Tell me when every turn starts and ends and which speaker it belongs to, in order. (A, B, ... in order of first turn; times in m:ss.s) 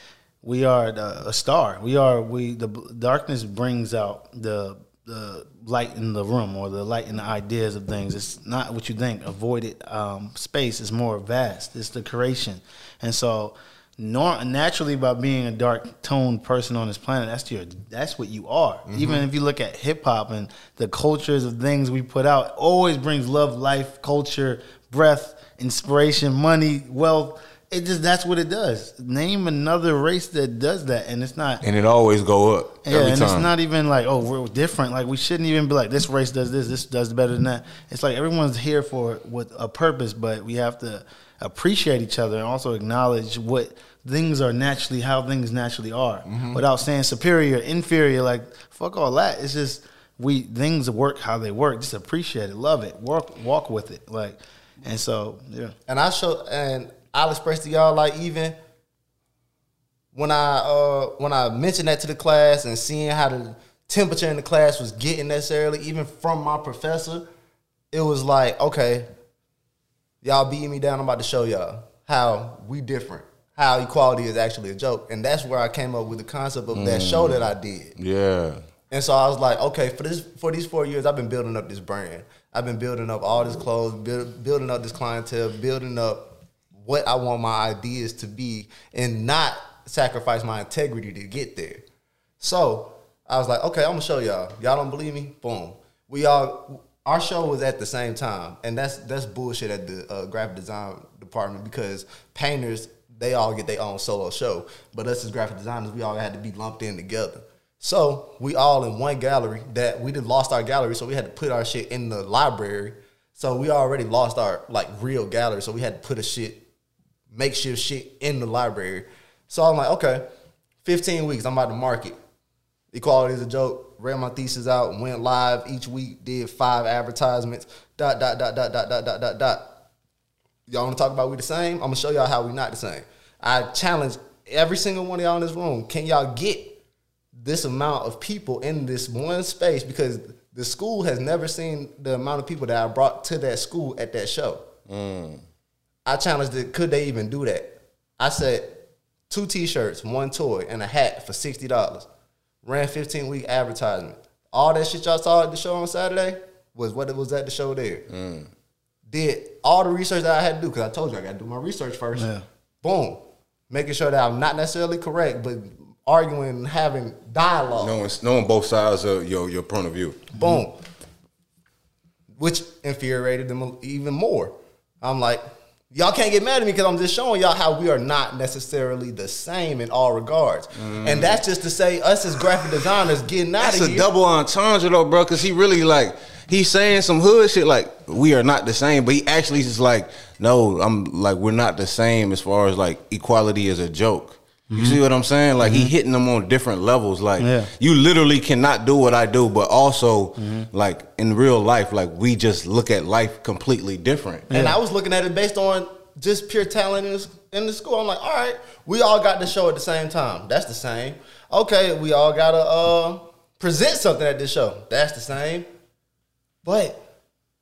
0:00.4-0:31.6 A
0:18.9-0:19.2 B
0:31.6-0:33.5 C
0:32.8-0:55.7 A
0:46.3-0:46.6 B
0:55.9-0:58.6 B
1:00.1-1:07.3 B
1:07.9-1:09.1 B
1:10.2-1:18.0 B
1:16.7-1:18.6 C
1:18.9-1:31.8 B
1:32.4-1:56.6 B
1:57.3-2:00.2 B
2:00.8-2:02.2 B
2:02.9-2:09.7 B
2:10.7-2:16.8 B
2:17.4-2:24.7 B
2:24.9-2:25.4 C
2:26.1-2:28.8 B
2:29.3-2:32.1 B
2:32.6-2:38.1 B
2:38.1-2:38.5 C
2:39.1-2:42.3 B
2:42.2-2:42.4 A
2:42.8-2:48.0 B
2:47.8-2:50.3 C
2:50.4-2:50.8 B
2:52.4-3:04.1 B
3:00.8-3:01.4 C
3:03.6-3:24.5 C
3:14.7-3:15.0 A
3:15.6-3:15.9 A
3:17.4-3:17.7 A
3:20.4-3:20.7 A
3:24.5-3:24.8 A
3:24.5-3:35.7 B
3:36.6-3:37.0 B